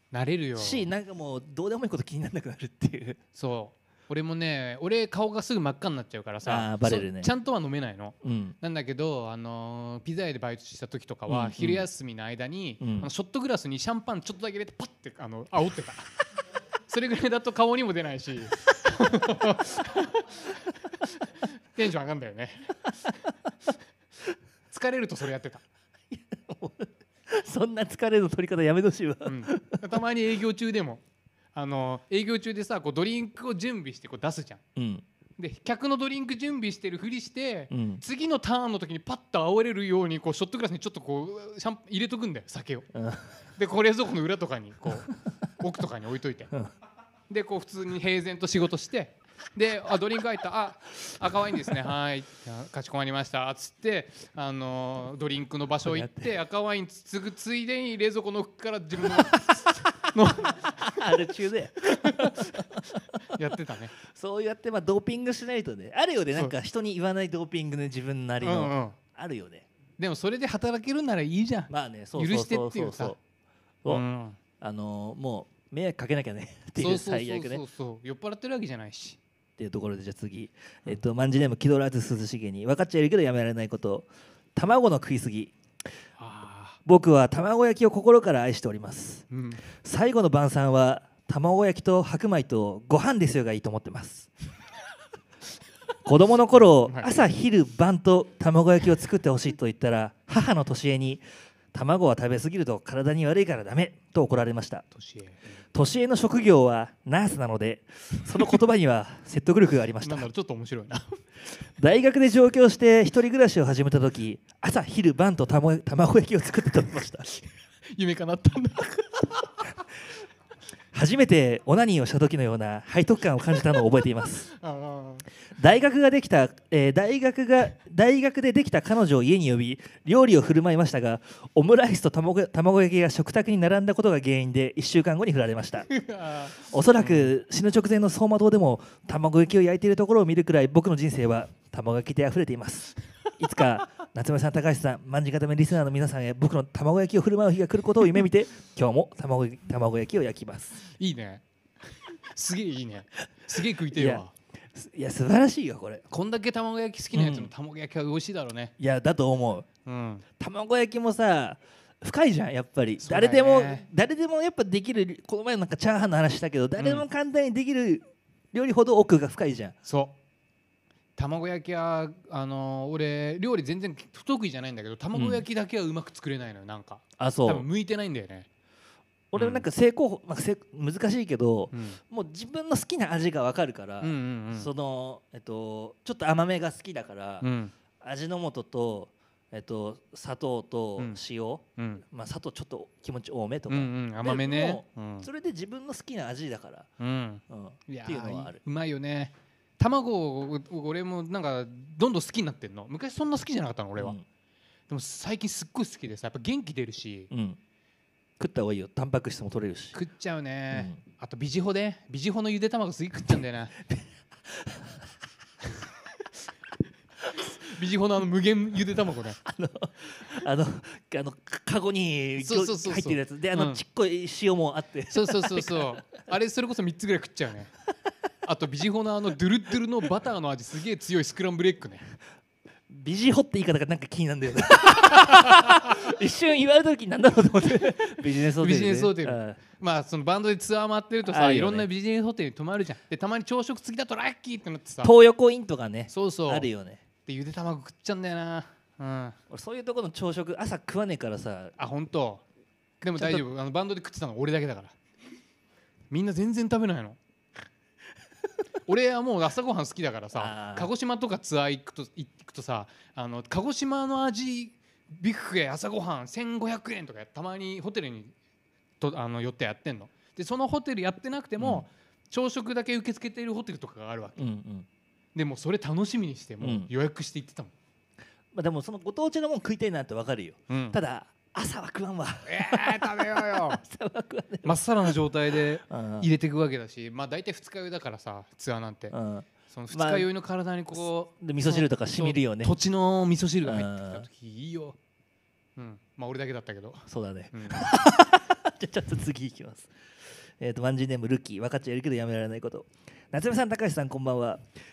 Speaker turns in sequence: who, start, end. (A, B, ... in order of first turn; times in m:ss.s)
0:00.1-0:00.9 A
0:00.6-0:03.2 B
0:03.3-0:16.1 A
0:06.4-0:07.3 B
0:08.2-0:08.6 B
0:11.3-0:11.9 B
0:12.8-0:13.1 B
0:16.9-0:23.2 A
0:24.7-0:25.6 A
0:26.1-0:30.0 B
0:29.2-0:31.0 A
0:31.5-0:34.6 A
0:34.8-0:35.0 B
0:35.4-0:42.9 A
0:37.7-0:38.0 B
0:42.9-0:43.3 B
0:43.6-0:46.5 A
0:47.3-1:01.0 A
0:55.9-0:56.3 B
0:59.0-0:59.9 B
1:00.6-1:03.2 B
1:01.9-1:02.7 A
1:03.3-1:03.9 A
1:04.1-1:09.7 B
1:08.4-1:09.0 A
1:10.0-1:13.2 A
1:11.7-1:13.2 B
1:13.9-1:14.4 A
1:14.6-1:17.6 B
1:16.8-1:19.2 A
1:19.6-1:25.5 B
1:26.2-1:26.8 A
1:26.9-1:29.2 B
1:29.3-1:29.6 A
1:29.8-1:34.3 B
1:36.0-1:44.8 B
1:36.5-1:37.2 A
1:44.9-1:45.5 A
1:45.7-1:50.3 B
1:50.0-1:51.2 A
1:51.8-1:57.3 B
1:57.9-1:59.7 A
2:00.9-2:04.5 B
2:04.5-2:05.3 A
2:05.6-2:15.9 B
2:15.9-2:17.3 A
2:16.7-2:30.8 B
2:31.0-2:34.3 A
2:33.9-2:36.0 B
2:36.1-2:38.7 A
2:37.1-2:37.5 B
2:38.8-2:39.7 B
2:39.9-2:40.2 A
2:40.4-2:49.7 B
2:43.0-2:43.8 A
2:46.8-2:47.1 A
2:49.8-2:50.2 A
2:51.2-2:58.5 A
2:55.1-2:55.4 B
2:57.2-2:57.7 B
2:59.3-3:07.4 B
2:59.4-2:59.7 A
3:01.7-3:02.0 A
3:04.0-3:04.7 A
3:07.4-3:07.7 A
3:08.0-3:16.9 B
3:11.8-3:12.0 A
3:13.7-3:15.3 A
3:17.0-3:24.2 A
3:17.5-3:18.6 B
3:24.0-3:24.2 B
3:24.9-3:27.3 A
3:27.3-3:27.6 B
3:28.4-3:30.0 B
3:29.9-3:33.8 A
3:30.7-3:31.0 B
3:33.8-3:35.0 B
3:37.6-3:39.4 A
3:39.4-3:46.0 B
3:42.4-3:43.8 A
3:45.1-3:47.7 A
3:48.4-3:52.0 A
3:52.9-3:59.6 B
3:55.1-3:55.9 A
3:58.1-4:05.1 A
4:01.2-4:01.9 B
4:05.0-4:07.0 B
4:06.1-4:06.7 A
4:07.3-4:09.4 A
4:09.5-4:11.8 B
4:11.8-4:12.4 A
4:13.0-4:14.9 A
4:13.2-4:13.4 B
4:16.1-4:17.2 A
4:18.9-4:28.3 A
4:20.4-4:20.9 B
4:29.0-4:34.4 A
4:31.6-4:31.8 B
4:34.4-4:34.9 B
4:35.4-4:37.7 A
4:36.6-4:36.9 B
4:38.5-4:45.2 B
4:40.7-4:41.0 A
4:42.5-4:43.8 A
4:44.6-4:49.2 A
4:45.8-4:46.3 B
4:49.1-4:50.3 B
4:49.7-4:55.0 A
4:51.4-4:52.7 B
4:53.6-4:54.3 B
4:55.8-4:57.8 A
4:57.1-4:59.9 B
5:00.6-5:04.6 B